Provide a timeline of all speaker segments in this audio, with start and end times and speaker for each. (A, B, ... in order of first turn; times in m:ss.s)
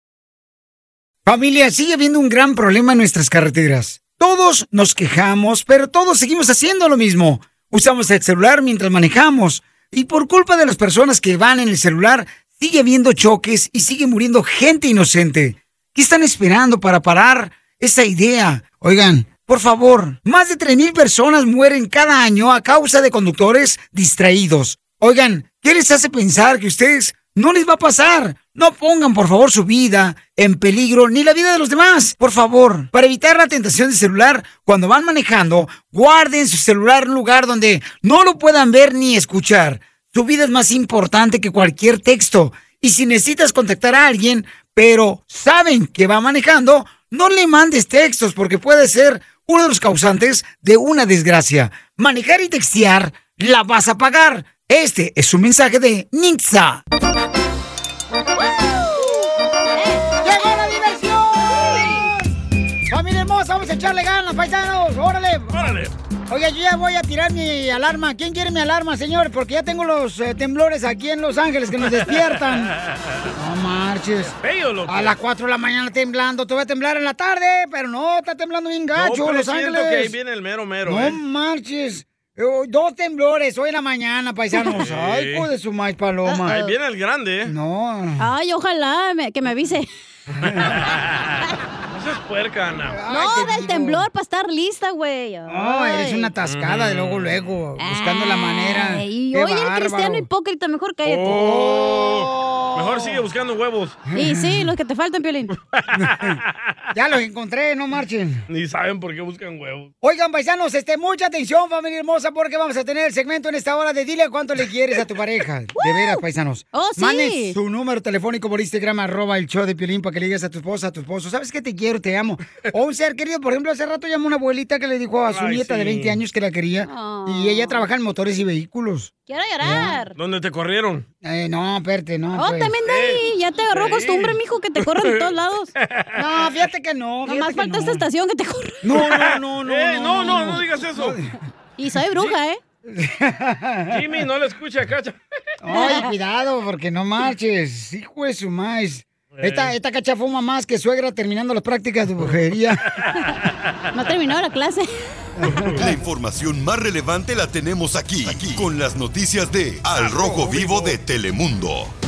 0:01.2-0:56.8 A
0:59.7-1:00.2 B
1:00.2-1:02.2 A
1:01.5-1:02.1 B
1:02.9-1:05.8 A
1:05.5-1:05.9 C
1:06.3-1:12.7 A
1:11.9-1:13.2 C
1:13.3-1:14.3 A
1:14.4-1:15.2 C
1:14.9-1:20.1 A
1:19.0-1:21.2 C
1:20.8-1:26.6 A
1:24.8-1:25.5 C
1:26.3-1:26.7 B
1:26.5-1:27.5 C
1:27.4-1:28.2 A
1:28.2-1:29.9 B
1:30.4-1:31.3 C
1:30.4-1:30.7 A
1:31.9-1:33.0 C
1:32.9-1:34.0 A
1:33.1-1:36.3 B
1:35.5-1:40.3 A
1:36.4-1:37.5 C
1:37.8-1:41.5 B
1:41.0-1:44.0 C
1:41.3-1:43.2 A
1:44.1-1:44.7 A
1:44.1-1:45.5 B
1:45.7-1:46.8 C
1:45.9-1:46.4 A
1:46.9-1:48.4 A
1:48.5-1:49.9 C
1:50.0-2:09.1 A
1:55.8-1:56.2 B
1:56.7-1:57.6 B
2:05.3-2:06.2 C
2:06.8-2:07.8 B
2:09.3-2:10.2 B
2:09.6-2:10.0 A
2:10.2-2:11.1 C
2:11.2-2:12.7 A
2:12.4-2:15.7 B
2:12.8-2:16.2 C
2:16.1-2:18.0 A
2:17.2-2:18.9 B
2:18.8-2:21.4 A
2:18.9-2:21.2 C
2:21.8-2:22.6 B
2:22.8-2:24.0 A
2:23.9-2:25.2 C
2:25.6-2:32.8 A
2:25.7-2:26.1 B
2:29.4-2:29.7 C
2:33.9-2:34.9 B
2:35.4-2:35.8 A
2:35.4-2:35.8 C
2:35.7-2:41.9 D
2:39.9-2:41.0 C